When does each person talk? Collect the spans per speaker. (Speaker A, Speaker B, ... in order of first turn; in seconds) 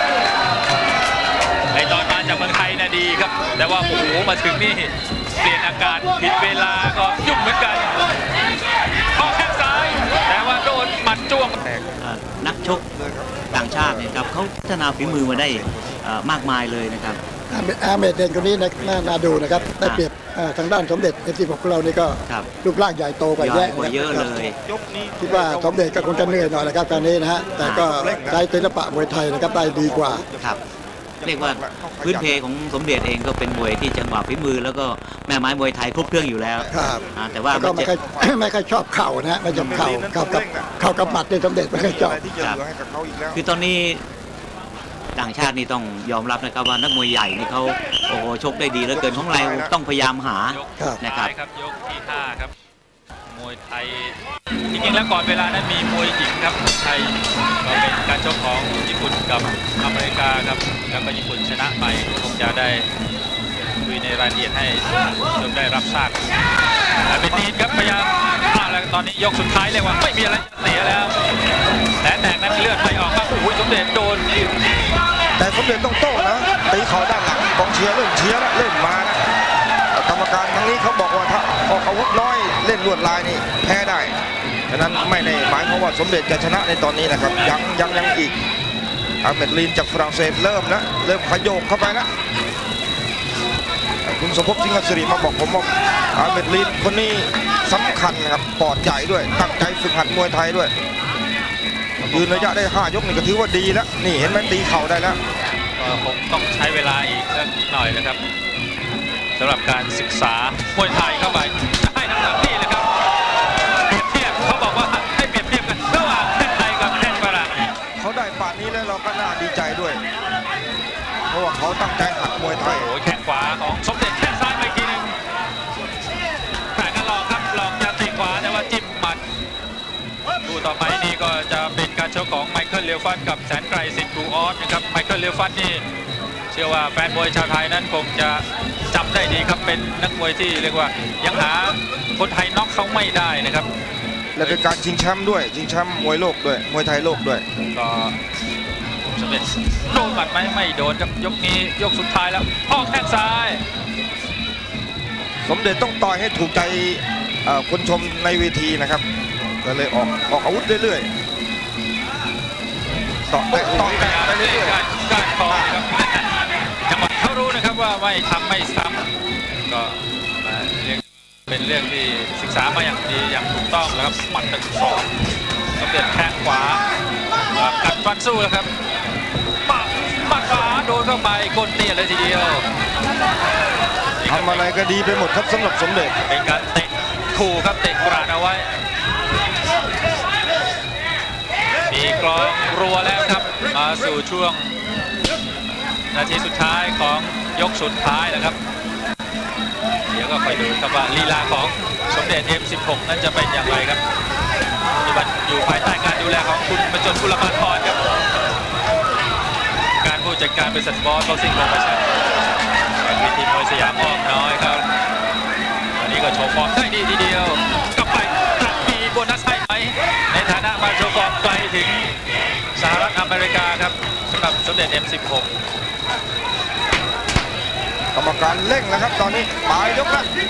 Speaker A: 1.7-8.0, 9.2-11.6, 50.5-52.5, 53.3-54.2, 54.7-62.9, 63.8-66.2, 67.1-71.2, 72.0-74.3, 102.0-102.6, 105.8-108.2, 109.4-112.9, 113.9-117.7, 122.6-125.2, 126.8-129.2, 130.4-135.8, 136.5-143.7, 144.4-144.6, 147.6-148.2, 149.1-153.6, 163.5-166.3, 166.9-169.0, 169.7-175.1, 175.8-176.8, 177.6-178.7, 179.7-182.6, 184.2-184.7, 186.3-188.7, 191.9-194.8, 196.1-198.6, 200.1-204.0, 205.0-208.0, 210.0-212.1, 213.0-214.9, 216.0-222.1, 222.8-225.5
Speaker B: 11.5-14.2, 14.8-16.1, 18.3-19.8, 23.8-27.1, 27.8-30.6, 31.2-32.5, 36.0-38.5, 39.5-43.4, 48.9-49.7, 75.4-79.2, 79.9-84.1, 84.7-88.4, 89.2-92.1, 94.0-100.7, 102.1-105.2, 118.0-120.0, 121.3-122.9, 144.3-147.4, 155.5-159.0, 159.6-161.1, 163.3-164.8, 165.5-165.8, 184.3-186.1, 228.2-230.3
Speaker C: 12.0-12.8, 13.5-17.2, 19.8-20.1, 22.3-22.6, 23.4-24.6, 27.6-27.9, 31.2-37.9, 39.5-39.9, 43.3-44.0, 45.1-51.3
Speaker D: 17.5-24.4, 25.2-30.2, 36.7-42.2